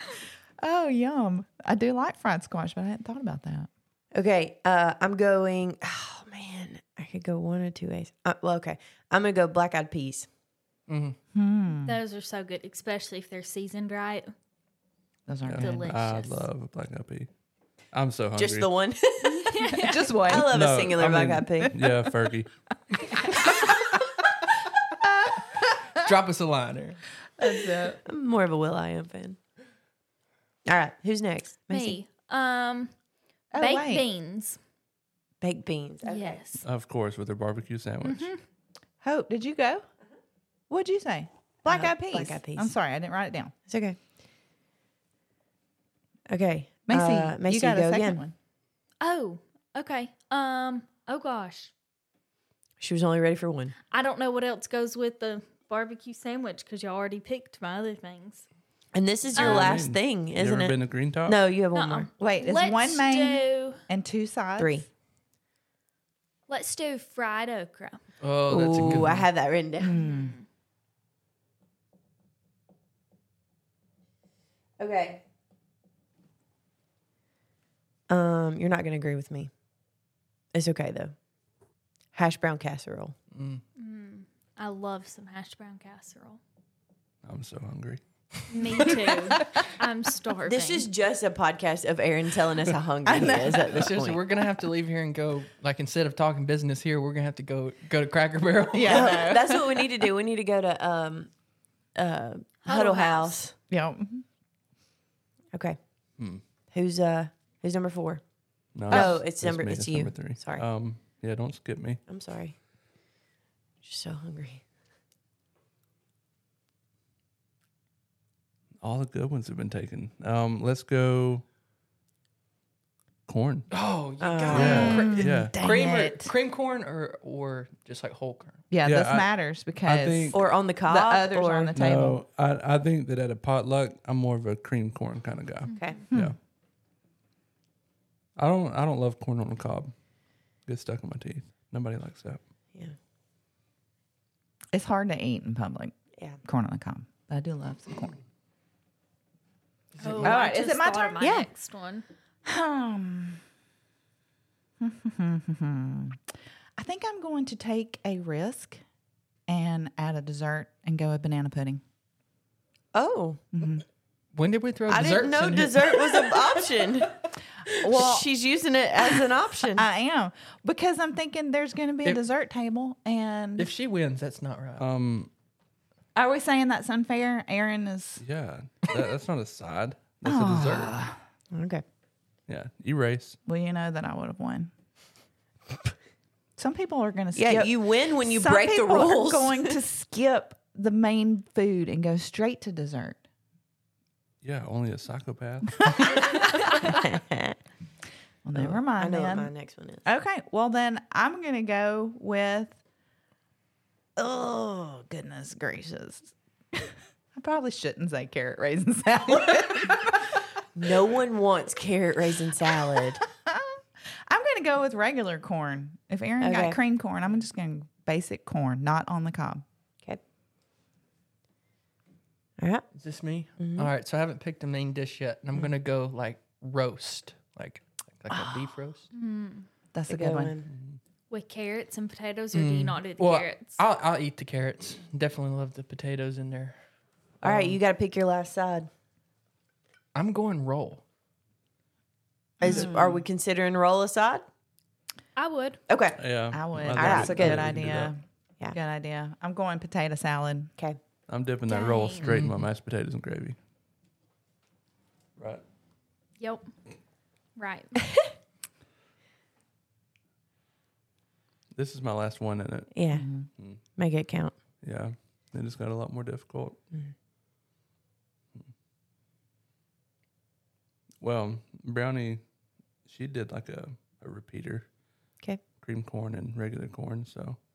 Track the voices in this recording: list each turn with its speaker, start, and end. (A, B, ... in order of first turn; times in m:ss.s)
0:00.6-0:03.7 A
0:04.1-0:10.3 B
0:10.9-0:11.2 C
0:11.3-0:12.0 A
0:11.8-0:14.3 D
0:15.3-0:16.0 A
0:15.5-0:17.3 E
0:15.6-0:16.4 D
0:17.9-0:18.7 E
0:18.4-0:19.7 B
0:19.2-0:20.2 D
0:19.7-0:20.5 A
0:20.2-0:21.7 B
0:20.4-0:22.5 E
0:21.7-0:22.1 A
0:23.3-0:23.7 A
0:25.0-0:26.1 A
0:25.9-0:27.0 C
0:27.4-0:28.0 A
0:28.0-0:29.4 B
0:30.6-0:32.0 B
0:31.7-0:32.9 D
0:33.5-0:34.0 A
0:33.5-0:34.6 D
0:35.4-0:36.4 B
0:36.0-0:36.6 D
0:36.6-0:38.3 E
0:38.0-0:38.4 D
0:39.0-0:39.8 A
0:40.7-0:43.5 A
0:41.7-0:42.7 B
0:43.7-0:44.0 B
0:46.3-0:48.2 B
0:46.9-0:48.3 A
0:49.0-0:51.7 D
0:52.8-0:53.7 B
0:53.9-0:58.4 D
0:58.9-1:02.1 B
0:59.4-0:59.8 D
0:59.4-1:01.4 E
1:01.7-1:03.8 D
1:02.2-1:04.8 A
1:04.6-1:04.8 B
1:06.5-1:08.0 D
1:08.2-1:09.2 C
1:08.5-1:10.0 B
1:09.8-1:10.3 A
1:09.9-1:10.4 D
1:14.8-1:15.2 B
1:18.1-1:19.5 B
1:20.5-1:21.1 B
1:22.1-1:23.1 B
1:23.3-1:23.6 C
1:23.8-1:26.4 D
1:27.2-1:28.0 E
1:28.5-1:30.9 D
1:28.9-1:29.4 C
1:30.4-1:34.2 B
1:33.0-1:33.8 A
1:33.7-1:39.2 C
1:38.7-1:39.8 A
1:38.9-1:41.3 B
1:42.0-1:43.5 B
1:42.6-1:43.4 D
1:43.7-1:44.2 A
1:46.2-1:46.4 E
1:46.7-1:48.2 B
1:48.7-1:52.0 E
1:48.9-1:50.6 B
1:52.1-1:52.5 B
1:53.8-1:54.6 B
1:58.8-2:01.4 E
2:03.3-2:03.7 E
2:03.7-2:08.6 C
2:04.2-2:05.0 B
2:04.5-2:05.6 E
2:04.5-2:06.3 A
2:08.7-2:12.2 A
2:08.8-2:09.3 E
2:09.8-2:10.4 E
2:10.3-2:11.7 B
2:11.7-2:16.4 E
2:15.7-2:16.0 D
2:15.7-2:16.0 B
2:16.1-2:16.4 A
2:18.4-2:19.9 E
2:20.6-2:22.4 E
2:24.7-2:28.2 A
2:30.0-2:30.4 C
2:30.0-2:32.0 D
2:30.2-2:31.5 A
2:32.4-2:33.4 A
2:34.8-2:36.2 A
2:36.8-2:38.8 A
2:39.5-2:41.8 A
2:42.9-2:43.4 B
2:43.5-2:43.8 A
2:44.3-2:46.6 C
2:44.9-2:47.2 B
2:47.7-2:48.2 A
2:47.9-2:49.8 B
2:49.8-2:53.7 A
2:53.6-2:54.8 C
2:54.8-2:55.3 E
2:56.2-2:58.2 A
2:58.2-3:01.0 E
3:00.2-3:01.2 A
3:01.5-3:01.8 B
3:02.5-3:03.4 E
3:03.4-3:04.7 A
3:06.6-3:13.2 A
3:07.3-3:09.8 B
3:14.4-3:16.2 E
3:16.1-3:17.6 B
3:18.4-3:19.5 A
3:18.6-3:20.0 B
3:20.0-3:22.8 A
3:24.2-3:30.4 A
3:30.7-3:33.2 B
3:33.0-3:39.6 A
3:36.4-3:36.8 B
3:42.6-3:42.8 B
3:43.0-3:49.1 C
3:43.6-3:43.9 B
3:48.3-3:48.7 A
3:49.1-3:49.7 D
3:49.9-3:50.5 A
3:50.1-3:50.7 B
3:51.3-3:53.8 D
3:52.5-3:56.7 C
3:57.4-3:58.9 B
3:57.4-3:57.7 C
4:00.1-4:01.0 C
4:02.6-4:04.4 B
4:02.6-4:03.2 A
4:05.4-4:05.8 D
4:05.9-4:06.2 B
4:06.2-4:08.1 E
4:06.5-4:10.7 A
4:07.0-4:07.6 B
4:11.3-4:13.6 E
4:11.6-4:12.4 D
4:12.2-4:12.5 C
4:15.4-4:15.6 E
4:16.4-4:16.7 D
4:17.6-4:18.2 D
4:21.7-4:22.9 E
4:22.9-4:23.3 B
4:23.1-4:23.5 A
4:24.0-4:24.5 B
4:24.8-4:26.8 E
4:31.2-4:32.4 E
4:33.0-4:34.9 E
4:35.8-4:37.6 E